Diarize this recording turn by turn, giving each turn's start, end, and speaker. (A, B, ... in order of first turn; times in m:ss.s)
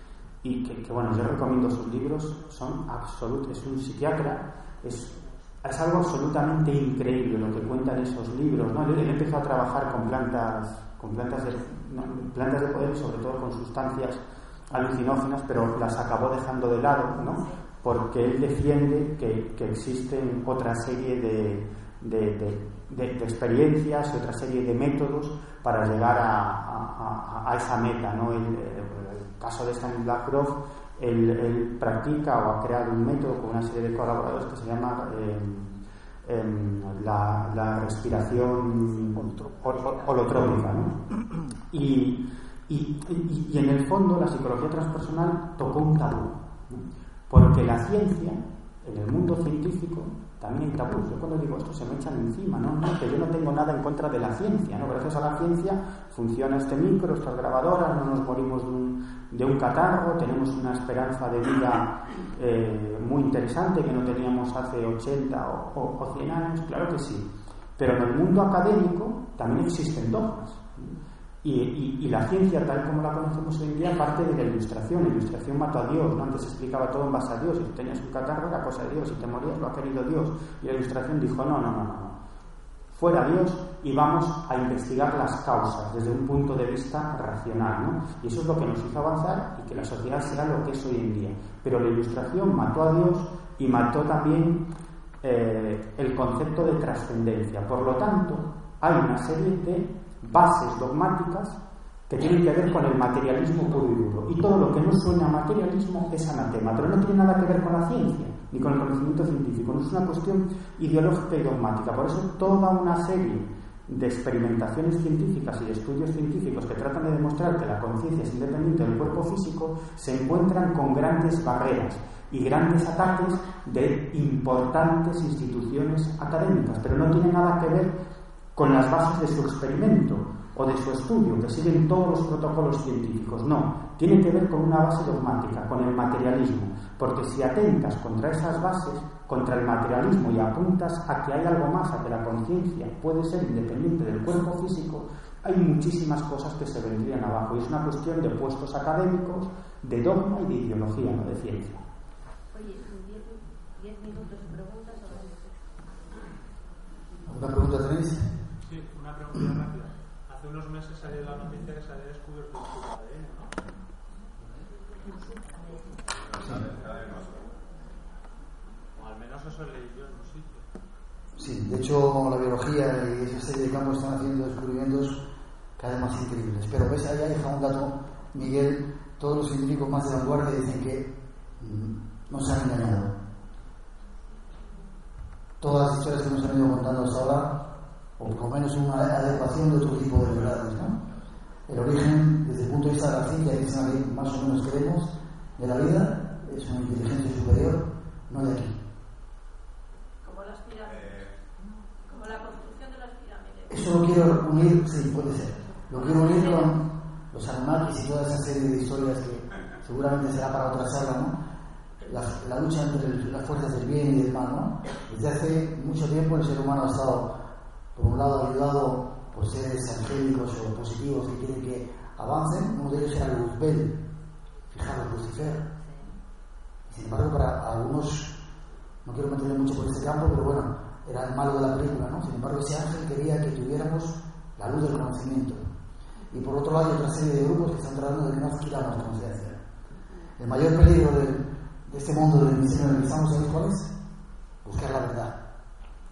0:00.4-0:41.0 A
0:41.7-1:10.9 A
1:11.4-1:22.2 A
1:22.9-1:34.7 A
1:35.2-2:08.0 A
2:08.6-2:31.8 A
2:32.5-2:35.7 B
2:37.3-2:38.3 C
2:38.6-2:43.7 D
2:44.4-2:44.7 D
2:45.1-2:45.8 B
2:46.3-2:46.6 D
2:49.0-2:50.6 D
2:51.4-2:55.2 C
2:55.8-3:03.1 C
3:05.6-3:07.6 C
3:08.2-3:11.0 C
3:11.7-3:18.8 C
3:20.2-3:21.3 E
3:22.0-3:23.8 E
3:23.7-3:31.4 C
3:26.0-3:26.7 E
3:32.0-3:37.4 C
3:38.0-3:44.0 C
3:44.7-3:45.6 C
3:45.8-3:46.1 B
3:46.9-3:48.4 C
3:49.0-3:55.7 C
3:56.3-3:59.6 C
4:00.4-4:03.9 C
4:04.6-4:05.4 C